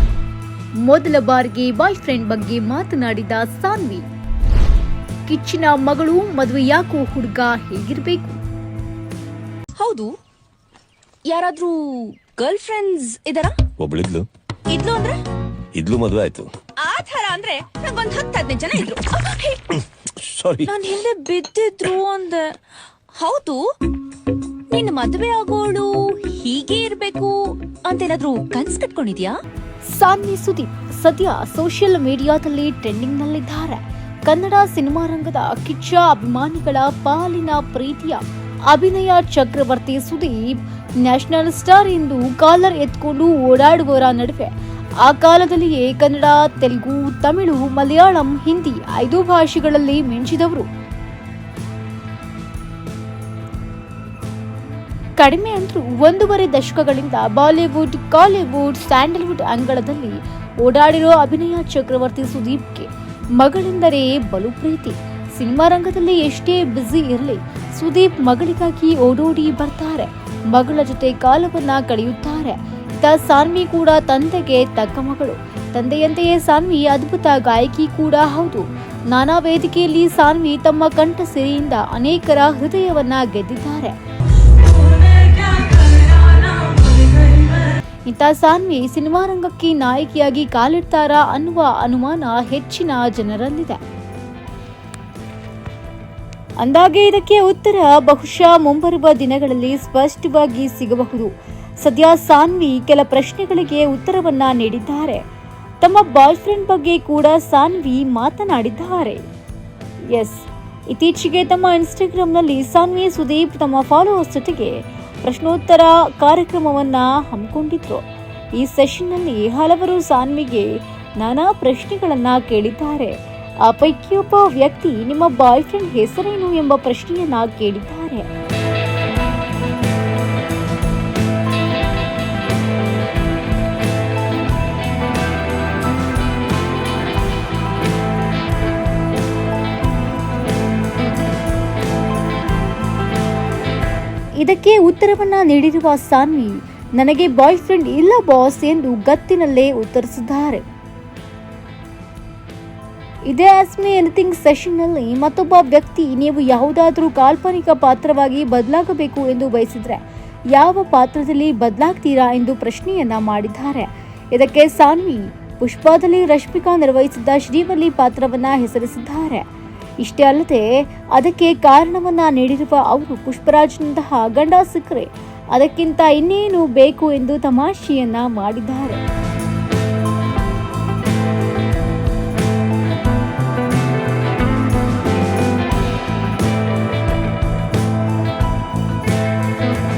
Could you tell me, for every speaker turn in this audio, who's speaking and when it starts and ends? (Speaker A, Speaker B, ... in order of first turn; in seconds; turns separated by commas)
Speaker A: 0.8-4.0, Speaker A: 5.3-8.4, Speaker B: 9.8-10.1, Speaker B: 11.2-13.6, Speaker C: 13.8-14.2, Speaker B: 14.7-15.2, Speaker C: 15.7-16.5, Speaker B: 16.8-19.8, Speaker C: 19.9-20.7, Speaker B: 20.7-22.6, Speaker B: 23.1-23.6, Speaker B: 24.7-29.4, Speaker A: 29.9-50.7, Speaker A: 55.2-84.0, Speaker B: 84.8-87.4, Speaker A: 88.0-93.8, Speaker A: 96.6-105.2, Speaker A: 105.8-109.2, Speaker A: 110.1-128.3, Speaker A: 144.4-150.6, Speaker A: 153.2-169.5, Speaker A: 170.0-179.0